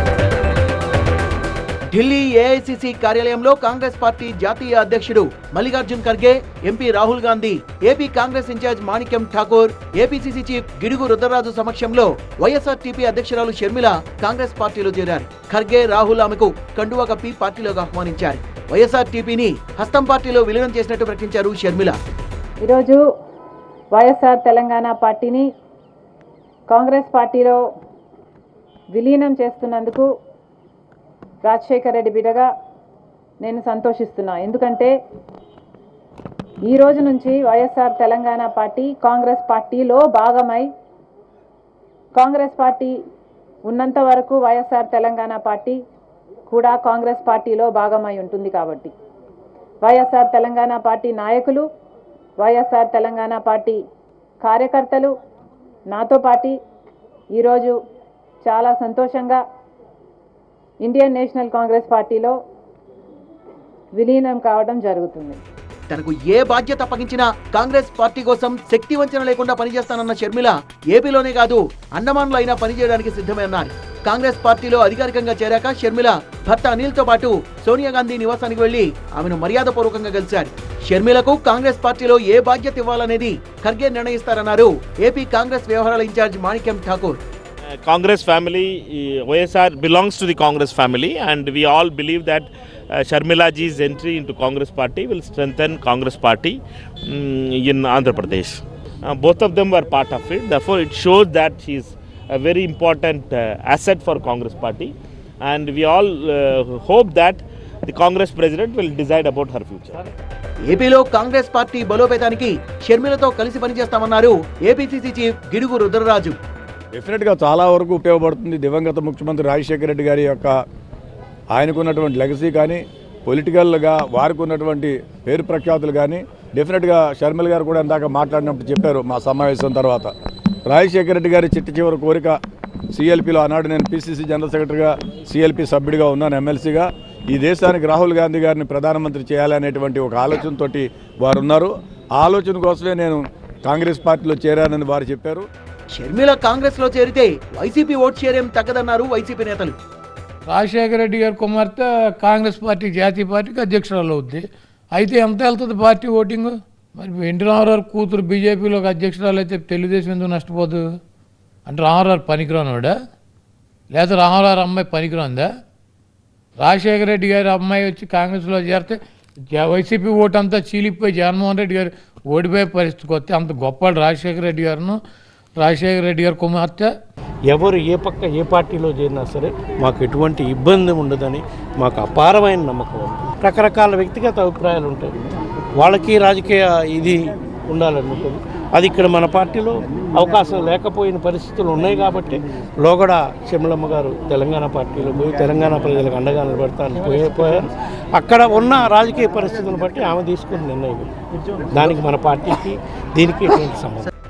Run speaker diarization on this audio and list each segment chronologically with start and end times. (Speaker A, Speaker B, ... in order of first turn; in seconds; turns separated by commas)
Speaker A: 1.9-22.0, Speaker B: 22.6-23.0, Speaker B: 23.9-25.5, Speaker B: 26.7-27.6, Speaker B: 28.9-30.1, Speaker B: 31.4-32.5, Speaker B: 33.4-34.9, Speaker B: 36.6-40.7, Speaker B: 42.2-43.0, Speaker B: 43.7-45.8, Speaker B: 46.5-48.9, Speaker B: 49.8-51.7, Speaker B: 52.4-53.8, Speaker B: 54.4-55.1, Speaker B: 55.9-56.6, Speaker B: 57.3-57.8, Speaker B: 58.4-59.4, Speaker B: 60.8-62.4, Speaker B: 63.9-65.4, Speaker A: 65.9-87.2, Speaker C: 87.8-110.1, Speaker A: 110.7-116.4, Speaker D: 116.9-120.5, Speaker D: 121.5-130.1, Speaker D: 130.7-132.4, Speaker D: 132.9-145.4, Speaker A: 145.9-149.8, Speaker E: 150.4-160.8, Speaker E: 161.7-163.0, Speaker E: 163.9-165.5, Speaker E: 166.6-169.0, Speaker E: 169.5-175.0, Speaker E: 175.6-176.9, Speaker F: 177.5-185.2, Speaker F: 185.8-201.1, Speaker F: 201.7-204.1